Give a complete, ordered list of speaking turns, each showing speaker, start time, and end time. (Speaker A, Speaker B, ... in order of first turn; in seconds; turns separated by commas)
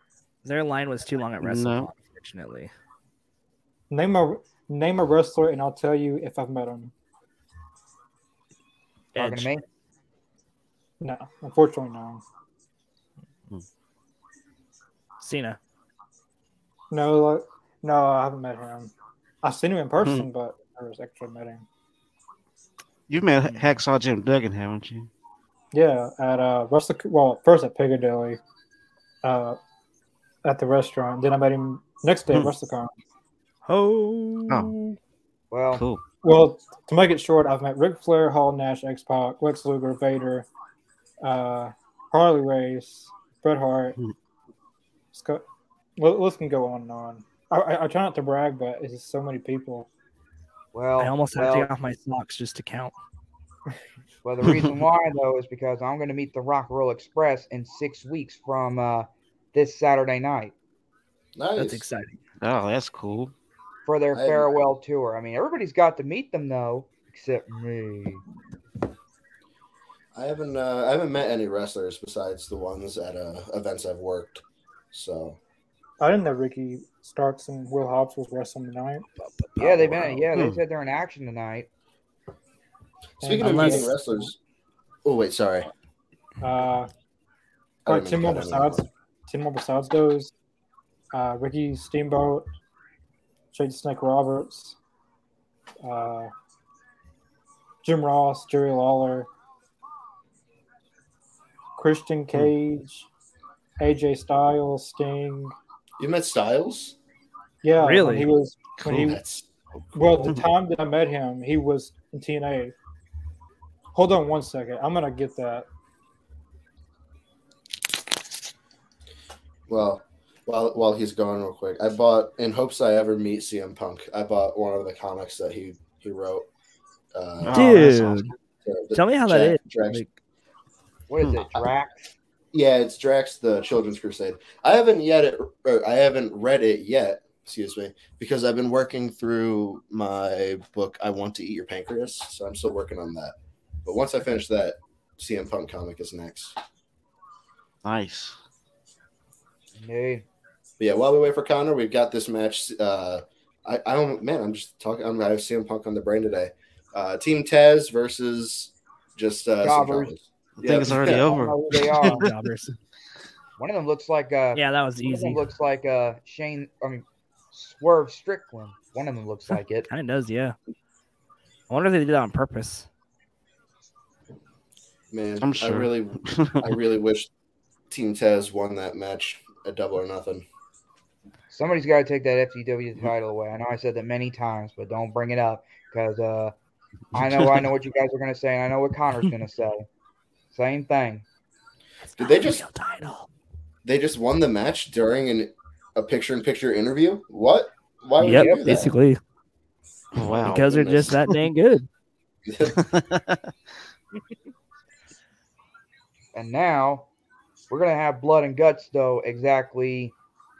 Speaker A: 0.4-2.7, Speaker B: 1.4-1.9, Speaker C: 3.9-6.9, Speaker A: 9.1-9.5, Speaker D: 9.2-9.6, Speaker C: 11.0-12.2, Speaker A: 15.2-15.6, Speaker C: 16.9-18.9, Speaker C: 19.4-21.6, Speaker B: 20.0-20.3, Speaker B: 23.1-25.1, Speaker C: 25.7-28.4, Speaker C: 29.2-29.6, Speaker C: 30.4-32.9, Speaker A: 33.6-35.0, Speaker D: 35.5-35.8, Speaker B: 35.7-36.0, Speaker C: 36.2-40.5, Speaker C: 41.2-44.0, Speaker C: 45.1-45.4, Speaker C: 46.0-49.9, Speaker D: 50.7-51.7, Speaker A: 51.0-52.9, Speaker D: 54.2-60.5, Speaker E: 61.3-61.9, Speaker A: 61.6-62.2, Speaker B: 62.4-63.3, Speaker D: 63.9-68.2, Speaker E: 64.1-64.5, Speaker E: 70.1-75.4, Speaker C: 76.0-79.0, Speaker A: 79.2-79.6, Speaker D: 79.6-81.7, Speaker E: 79.6-80.2, Speaker B: 80.3-80.6, Speaker E: 83.2-84.4, Speaker C: 83.2-84.3, Speaker A: 83.4-83.9, Speaker E: 85.0-85.7, Speaker C: 86.4-86.9, Speaker E: 87.8-88.8, Speaker C: 87.8-90.3, Speaker C: 91.1-92.5, Speaker C: 93.5-94.8, Speaker C: 95.8-96.3, Speaker C: 97.8-99.3, Speaker C: 101.8-103.1, Speaker C: 103.8-105.5, Speaker E: 106.0-107.0, Speaker C: 107.6-109.2, Speaker A: 107.8-108.3, Speaker E: 108.8-109.5, Speaker C: 109.9-112.7, Speaker C: 113.9-115.7, Speaker E: 119.7-126.5, Speaker E: 127.1-127.8, Speaker B: 127.4-128.3, Speaker A: 127.5-128.3, Speaker E: 128.6-130.0, Speaker A: 128.9-130.1, Speaker D: 131.1-132.0, Speaker B: 131.2-131.4, Speaker E: 132.5-143.3, Speaker E: 143.8-146.5, Speaker B: 147.8-148.3, Speaker D: 149.8-150.2, Speaker E: 150.8-161.4, Speaker D: 159.6-160.1, Speaker B: 160.6-162.3, Speaker D: 160.8-162.3, Speaker A: 161.9-162.7, Speaker D: 163.6-169.9, Speaker A: 164.5-165.4, Speaker A: 169.9-170.6, Speaker A: 171.7-172.8, Speaker E: 175.1-177.3, Speaker B: 175.4-176.8, Speaker E: 177.9-180.4, Speaker D: 181.5-186.5, Speaker D: 187.1-189.8, Speaker B: 187.1-187.7, Speaker D: 190.5-191.2, Speaker A: 192.1-193.3, Speaker E: 192.2-192.6, Speaker E: 193.8-198.9, Speaker A: 198.2-199.2, Speaker D: 198.3-198.6, Speaker B: 200.1-200.8, Speaker E: 200.3-201.1, Speaker A: 200.4-201.9, Speaker E: 202.5-202.8, Speaker B: 202.7-203.5, Speaker D: 206.3-207.1, Speaker D: 207.7-210.1